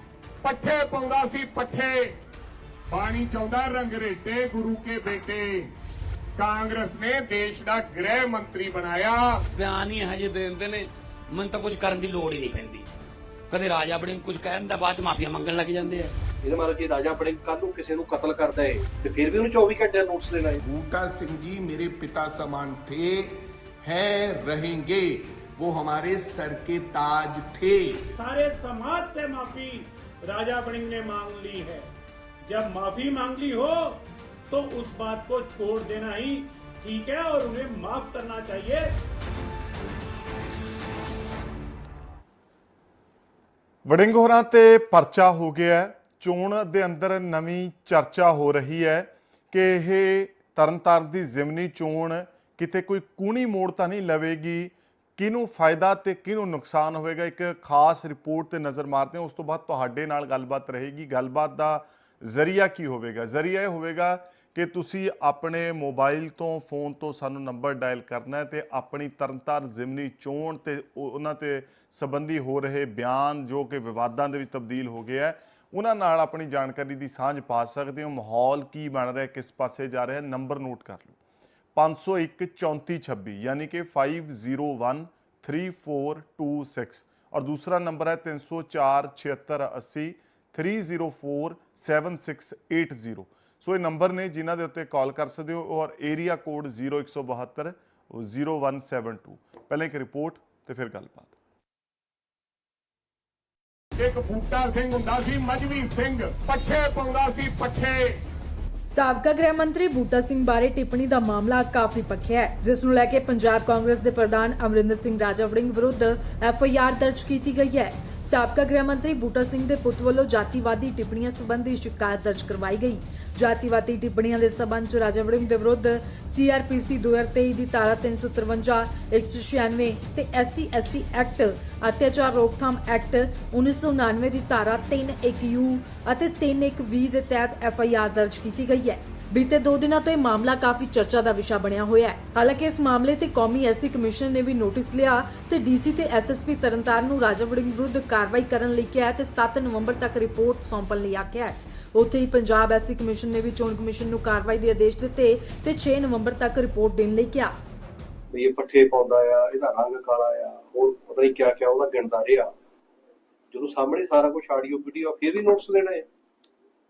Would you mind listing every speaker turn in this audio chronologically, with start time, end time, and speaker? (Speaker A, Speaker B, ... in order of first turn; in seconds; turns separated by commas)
Speaker A: 0.4-2.2, Speaker A: 2.9-5.7, Speaker A: 6.4-9.4, Speaker B: 9.5-12.9, Speaker B: 13.5-16.1, Speaker C: 16.4-20.6, Speaker D: 20.6-28.1, Speaker E: 28.2-31.9, Speaker E: 32.5-39.0, Speaker F: 43.9-81.2, Speaker F: 81.8-101.4, Speaker A: 104.0-108.2, Speaker G: 108.9-157.5, Speaker C: 158.3-162.6, Speaker C: 163.5-166.1